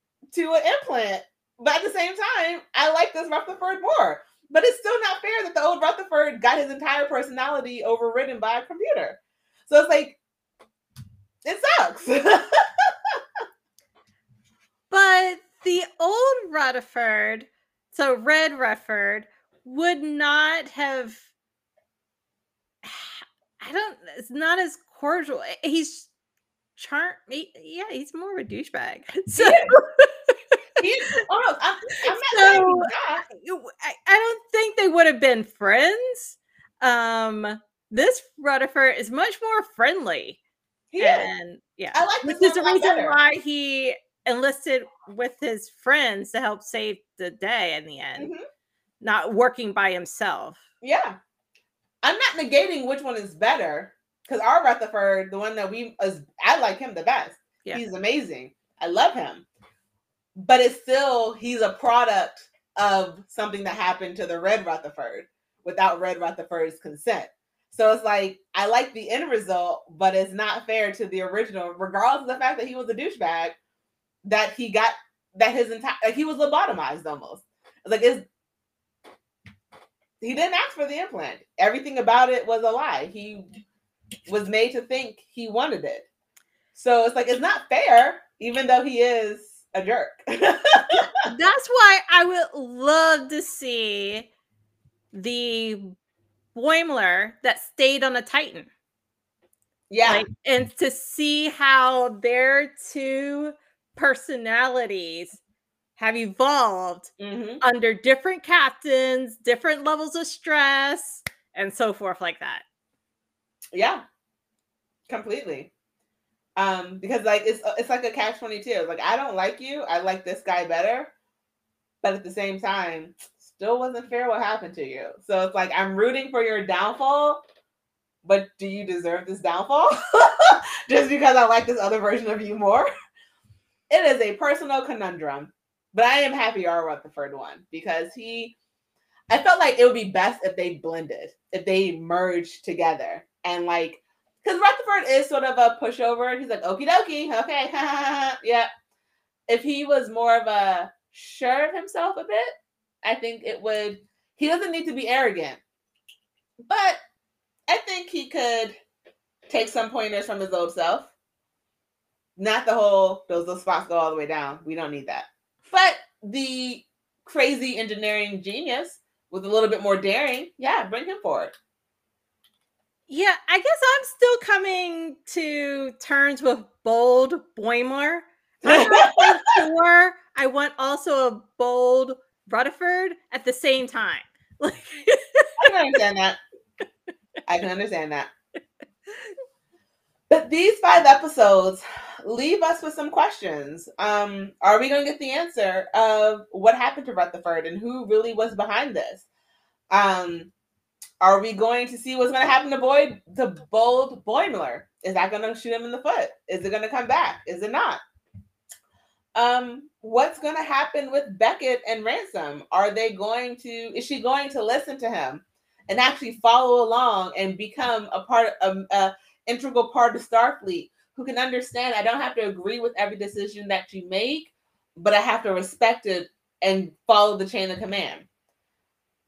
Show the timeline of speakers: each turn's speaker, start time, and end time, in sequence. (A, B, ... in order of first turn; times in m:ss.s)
0:00.3-0:10.2 A
0:11.4-0:13.2 A
0:14.9-0:21.3 B
0:22.8-0:26.1 B
0:26.8-0:30.6 B
0:29.4-0:29.7 A
0:30.8-0:33.2 A
0:32.0-0:40.4 B
0:40.9-0:41.3 A
0:41.0-0:48.3 B
0:41.9-0:43.2 A
0:49.0-0:50.6 B
0:50.8-0:51.2 A
0:52.0-0:59.4 A
1:00.4-1:13.6 A
1:14.2-1:18.2 A
1:20.2-1:23.5 A
1:24.3-1:26.1 A
1:26.7-1:31.1 A
1:31.2-1:34.3 B
1:35.1-1:35.9 B
1:36.5-1:38.7 B
1:39.9-1:40.2 A
1:40.0-1:45.4 B
1:46.0-1:52.6 B
1:47.2-1:47.6 A
1:53.7-1:54.0 A
1:55.1-1:55.7 A
1:56.6-2:01.1 A
2:02.0-2:07.4 A
2:08.2-2:12.9 A
2:13.9-2:18.5 A
2:19.3-2:28.7 A
2:29.5-2:32.5 A
2:33.0-2:35.6 A
2:36.6-2:37.0 A
2:37.7-2:38.8 A
2:39.5-2:41.1 A
2:42.4-2:51.5 A
2:53.1-3:05.6 B
2:58.6-2:59.6 A
3:05.6-3:06.4 A
3:07.5-3:08.3 A
3:10.3-3:19.2 A
3:19.9-3:20.5 A
3:21.2-3:28.0 A
3:29.4-3:48.2 A